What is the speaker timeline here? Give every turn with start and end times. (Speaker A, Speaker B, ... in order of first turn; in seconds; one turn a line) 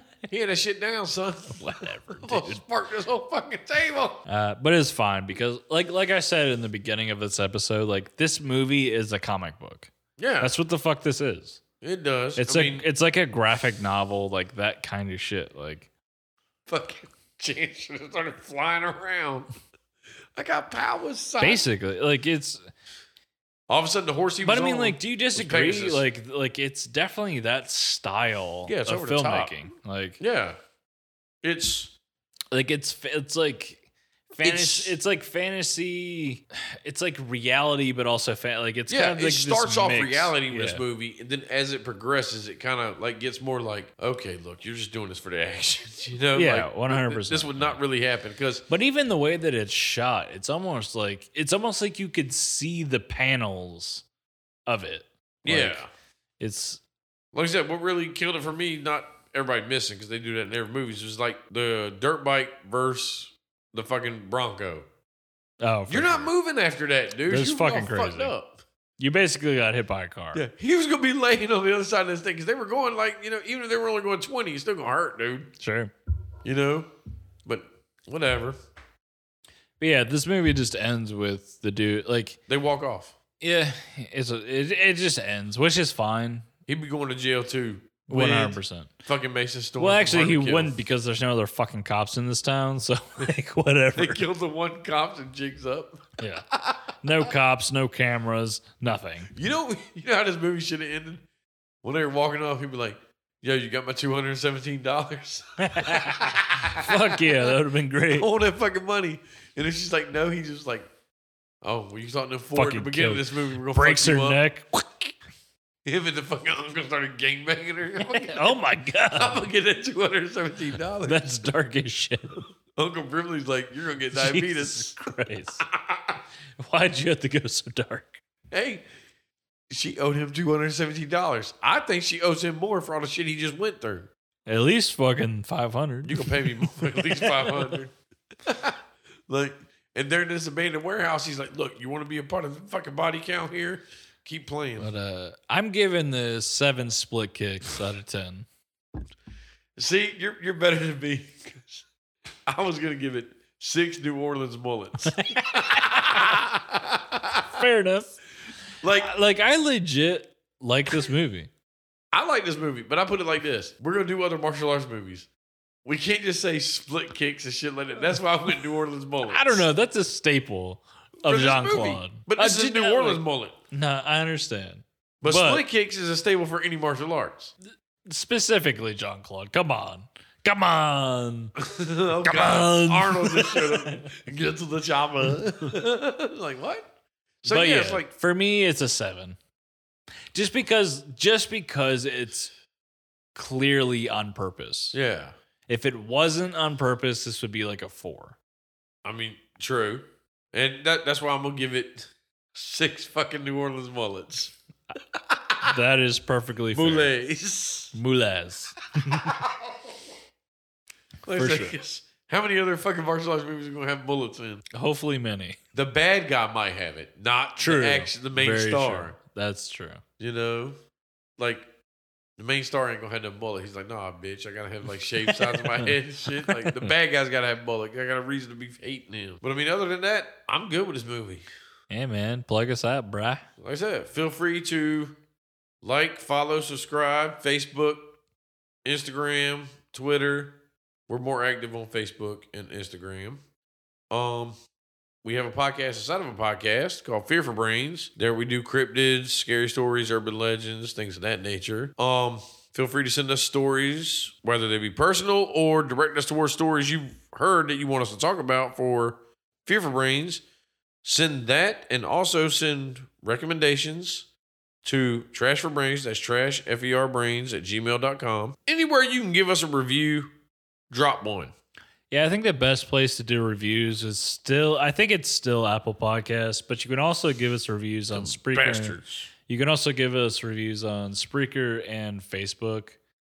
Speaker A: 0.3-4.2
Speaker B: 1.5-2.6
Speaker B: 4.3-11.6
Speaker A: 10.2-10.5
Speaker A: 11.8-12.9
Speaker B: 12.4-15.9
Speaker A: 16.7-19.5
Speaker A: 20.4-21.6
Speaker B: 21.4-22.6
Speaker A: 23.7-26.0
Speaker B: 24.4-30.2
Speaker A: 28.7-29.6
Speaker A: 30.2-30.6
Speaker A: 31.4-31.9
Speaker B: 32.5-40.9
Speaker A: 34.4-35.0
Speaker A: 38.9-48.6
Speaker B: 46.4-47.8
Speaker B: 48.7-54.0
Speaker B: 54.7-55.8
Speaker A: 55.5-55.9
Speaker B: 56.4-56.8
Speaker A: 57.3-64.9
Speaker B: 65.6-66.3
Speaker A: 65.9-68.6
Speaker B: 67.3-68.3
Speaker B: 69.0-70.4
Speaker A: 70.3-75.5
Speaker B: 75.6-75.9
Speaker A: 76.4-76.9
Speaker A: 77.5-78.6
Speaker B: 79.8-82.4
Speaker A: 82.5-83.2
Speaker B: 83.4-86.5
Speaker A: 86.7-90.8
Speaker B: 88.1-88.9
Speaker B: 89.8-94.2
Speaker A: 94.0-96.9
Speaker B: 96.2-96.5
Speaker B: 97.0-99.3
Speaker A: 99.3-101.2
Speaker A: 101.8-107.5
Speaker B: 105.6-108.3
Speaker A: 108.1-110.9
Speaker A: 111.6-114.4
Speaker B: 112.5-115.1
Speaker A: 115.8-121.5
Speaker B: 118.0-119.5
Speaker B: 121.0-122.4
Speaker A: 122.8-125.0
Speaker B: 124.1-125.7
Speaker A: 125.6-126.2
Speaker B: 126.6-128.2
Speaker A: 128.5-128.8
Speaker A: 129.7-134.1
Speaker B: 134.5-137.8
Speaker A: 136.1-137.9
Speaker A: 138.4-144.9
Speaker B: 144.8-148.5
Speaker A: 149.8-151.8
Speaker A: 152.5-157.5
Speaker B: 155.1-156.4
Speaker B: 157.5-158.2
Speaker A: 158.8-159.1
Speaker B: 159.0-161.5
Speaker A: 162.1-165.3
Speaker A: 165.8-169.7
Speaker B: 169.3-175.7
Speaker A: 171.2-173.6
Speaker A: 175.2-177.5
Speaker B: 178.1-181.6
Speaker A: 181.6-186.9
Speaker B: 182.2-184.1
Speaker A: 187.4-188.1
Speaker B: 187.5-189.4
Speaker B: 190.3-192.5
Speaker B: 193.3-195.0
Speaker A: 194.9-195.3
Speaker B: 195.7-198.4
Speaker A: 199.1-204.6
Speaker A: 205.1-205.7
Speaker B: 205.6-207.1
Speaker A: 206.7-207.9
Speaker B: 207.9-209.4
Speaker A: 211.2-214.6
Speaker B: 211.3-211.8
Speaker B: 214.7-215.6
Speaker A: 215.7-219.2
Speaker B: 217.6-220.0
Speaker A: 220.2-220.8
Speaker A: 221.4-221.7
Speaker A: 222.4-231.5
Speaker B: 225.4-226.9
Speaker B: 231.9-233.5
Speaker A: 233.6-235.2
Speaker A: 235.8-238.2
Speaker A: 238.8-240.6
Speaker A: 241.1-243.4
Speaker A: 244.1-244.6
Speaker A: 245.2-260.4
Speaker A: 261.0-264.3
Speaker A: 264.8-270.3
Speaker A: 270.9-271.5
Speaker B: 272.1-283.0
Speaker A: 278.1-279.3